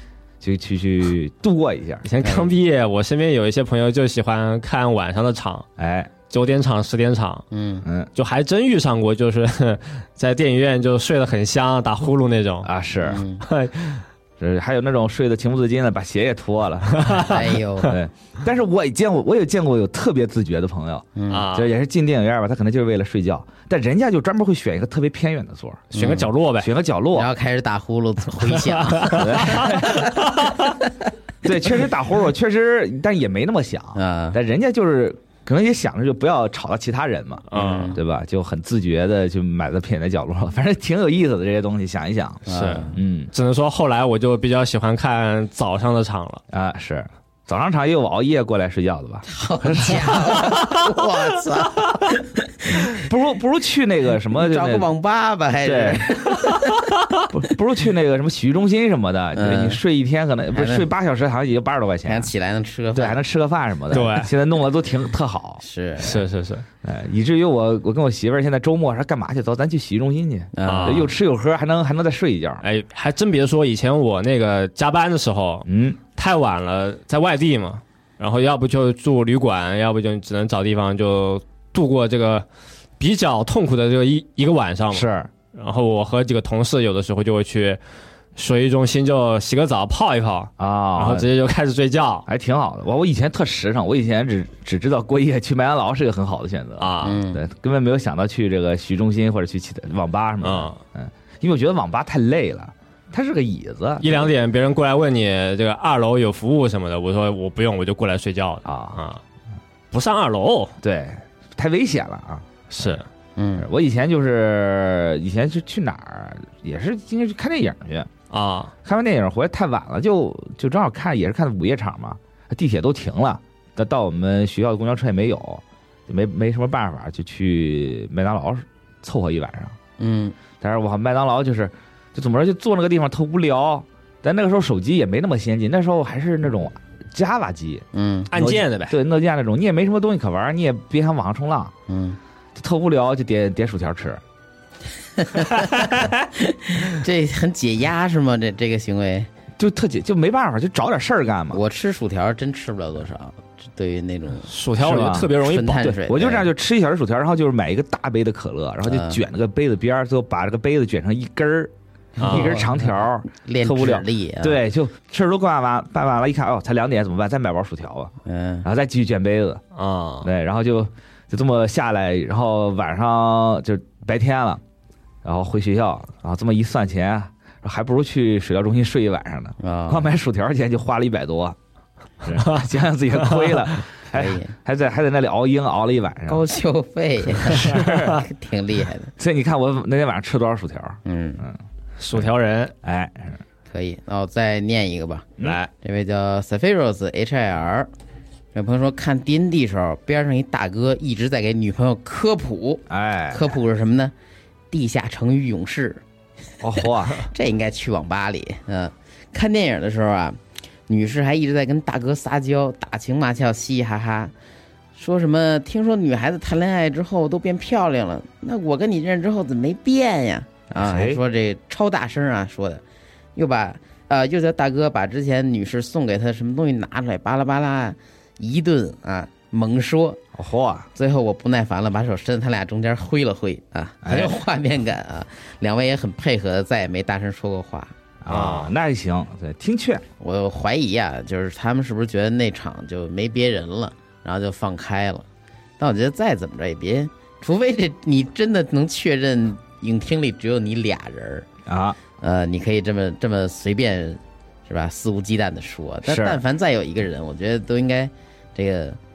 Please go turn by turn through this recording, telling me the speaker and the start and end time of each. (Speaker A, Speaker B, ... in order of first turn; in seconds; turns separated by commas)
Speaker A: 0.4-2.1, Speaker B: 2.0-5.7, Speaker C: 2.2-2.5, Speaker A: 5.8-6.1, Speaker B: 6.3-7.5, Speaker C: 7.5-7.8, Speaker A: 7.8-8.1, Speaker B: 8.2-12.7, Speaker A: 12.6-13.2, Speaker C: 13.1-13.4, Speaker B: 13.4-14.0, Speaker A: 14.4-25.9, Speaker B: 16.9-17.3, Speaker C: 17.2-18.0, Speaker C: 21.2-21.5, Speaker B: 21.3-21.7, Speaker C: 25.9-26.3, Speaker B: 25.9-26.7, Speaker A: 26.6-27.3, Speaker C: 27.1-30.3, Speaker B: 28.6-29.2, Speaker A: 29.1-30.1, Speaker B: 30.3-30.6, Speaker A: 31.4-43.3, Speaker C: 34.0-34.4, Speaker B: 37.5-38.0, Speaker C: 37.5-38.0, Speaker C: 42.5-43.0, Speaker B: 42.5-46.4, Speaker A: 46.5-50.6, Speaker C: 49.3-53.0, Speaker A: 52.7-54.9, Speaker C: 54.3-56.9, Speaker A: 55.6-56.0, Speaker A: 57.3-62.3, Speaker C: 59.4-59.8, Speaker C: 60.5-60.9, Speaker C: 62.1-63.2, Speaker A: 62.9-66.2, Speaker B: 63.9-64.3, Speaker C: 65.6-66.2, Speaker B: 66.0-66.7, Speaker A: 66.8-72.6, Speaker C: 70.5-71.1, Speaker B: 70.6-71.1, Speaker B: 72.6-82.5, Speaker A: 75.7-76.0, Speaker B: 83.0-87.8, Speaker A: 84.9-85.3, Speaker B: 88.4-92.3, Speaker A: 90.6-91.3, Speaker A: 92.3-104.3, Speaker B: 96.8-97.2, Speaker C: 97.0-97.4, Speaker B: 100.4-100.8, Speaker B: 104.0-109.2, Speaker A: 108.7-109.0, Speaker B: 109.9-110.8, Speaker A: 110.8-113.0, Speaker B: 112.7-113.0, Speaker C: 113.4-113.7, Speaker A: 113.6-118.1, Speaker B: 118.3-118.7, Speaker A: 118.8-129.8, Speaker C: 130.0-130.4, Speaker A: 130.6-141.7, Speaker C: 137.9-138.3, Speaker B: 138.3-138.9, Speaker C: 141.9-142.2, Speaker A: 142.6-144.2, Speaker C: 145.2-149.3, Speaker A: 149.6-151.6, Speaker C: 151.5-154.5, Speaker B: 154.5-155.9, Speaker A: 154.8-168.1, Speaker C: 155.3-156.5, Speaker C: 158.8-159.2, Speaker C: 162.2-164.6, Speaker B: 162.2-162.6, Speaker C: 168.2-168.7, Speaker A: 168.6-169.6, Speaker B: 169.8-170.3, Speaker A: 170.2-174.6, Speaker A: 175.2-181.6, Speaker C: 179.6-180.1, Speaker A: 182.2-186.4, Speaker B: 182.4-182.7, Speaker B: 183.3-183.7, Speaker C: 184.1-184.5, Speaker C: 186.3-189.1, Speaker A: 187.5-188.2, Speaker A: 189.2-191.6, Speaker C: 191.1-191.4, Speaker B: 192.0-192.7, Speaker A: 192.8-193.4, Speaker C: 193.7-197.9, Speaker B: 195.4-195.7, Speaker C: 198.6-204.1, Speaker A: 202.9-203.5, Speaker C: 204.7-206.0, Speaker A: 206.6-207.2, Speaker C: 206.8-214.3, Speaker C: 215.0-222.8, Speaker A: 220.7-221.2, Speaker C: 223.4-230.2, Speaker A: 230.3-230.9, Speaker C: 230.9-237.9, Speaker A: 234.0-234.4, Speaker A: 238.2-240.0, Speaker B: 238.3-238.7, Speaker C: 240.2-245.3, Speaker C: 245.8-251.5, Speaker A: 251.7-252.0, Speaker C: 252.2-259.0, Speaker A: 256.1-256.4